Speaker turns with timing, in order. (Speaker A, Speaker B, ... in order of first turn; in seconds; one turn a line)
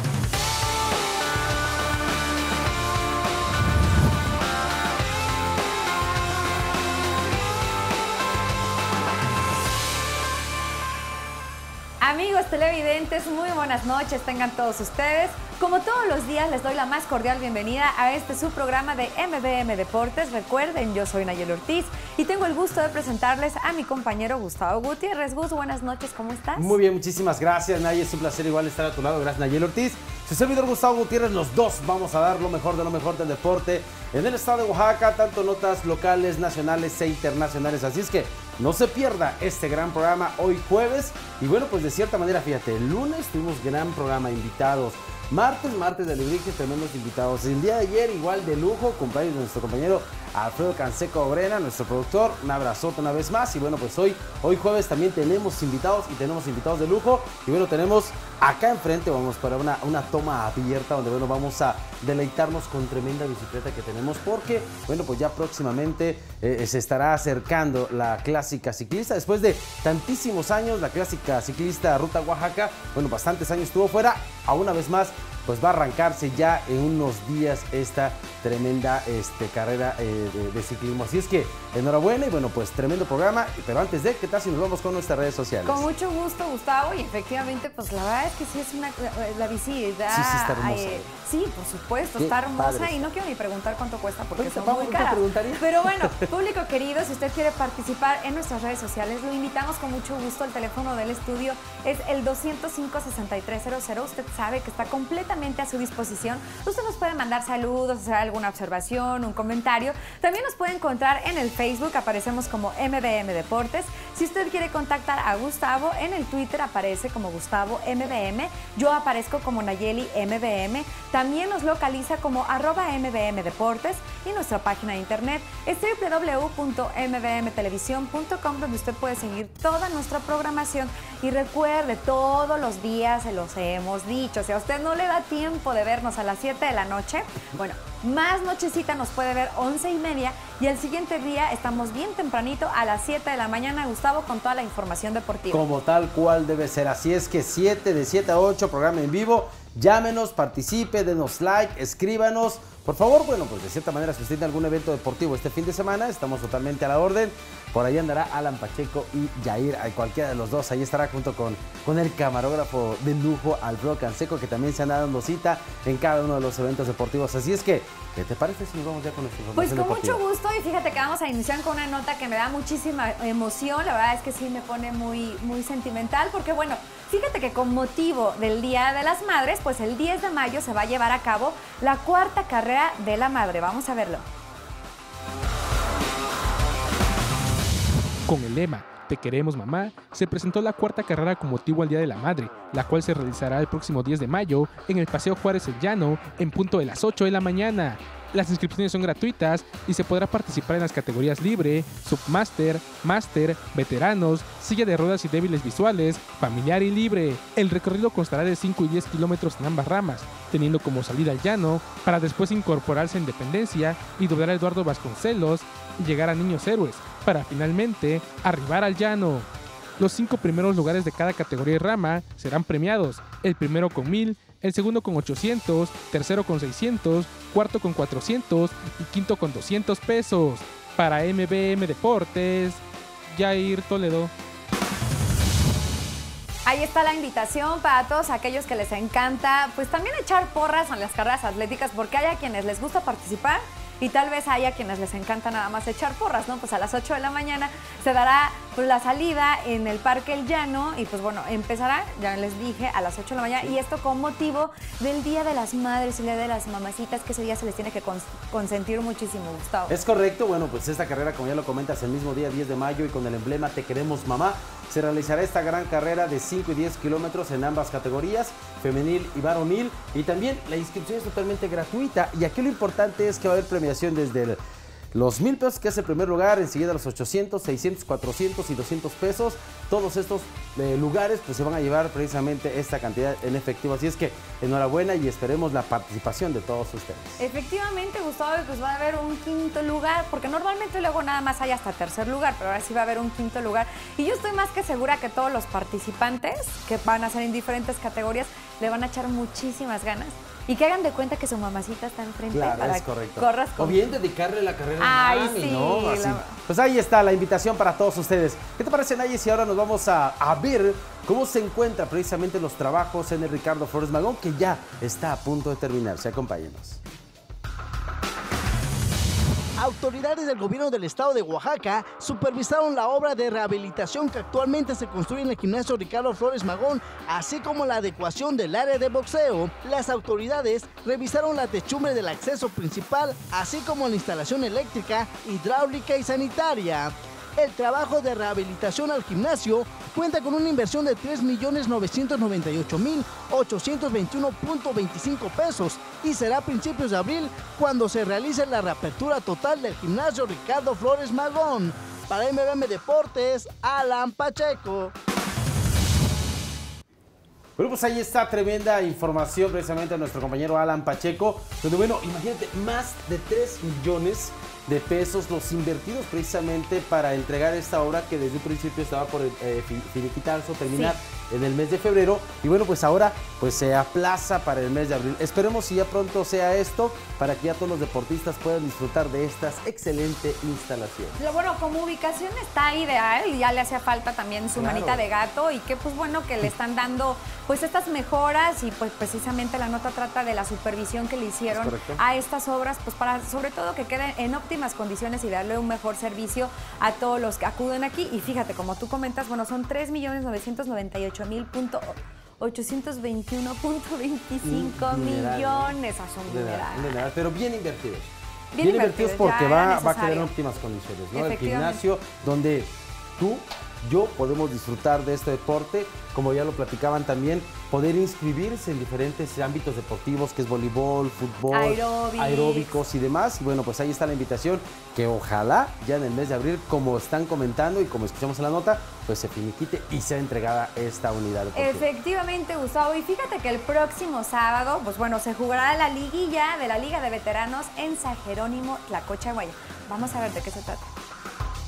Speaker A: 12.0-26.8
Speaker B: 26.6-85.9
Speaker A: 85.7-145.6
Speaker B: 90.1-91.1
Speaker B: 92.2-93.1
Speaker B: 94.4-96.2
Speaker B: 145.5-170.2
Speaker A: 169.5-184.3
Speaker C: 188.3-234.3
Speaker A: 236.7-260.0
Speaker B: 259.9-274.6
Speaker B: 275.1-287.4
Speaker A: 287.4-304.1
Speaker B: 302.5-317.0
Speaker A: 305.0-306.6
Speaker D: 319.8-355.1
Speaker B: 357.8-381.5
Speaker A: 370.9-371.1
Speaker A: 381.4-407.3
Speaker B: 384.7-385.3
Speaker B: 391.7-392.2
Speaker B: 404.6-432.1
Speaker A: 408.7-410.5
Speaker A: 411.3-412.0
Speaker A: 421.7-423.0
Speaker A: 431.7-441.1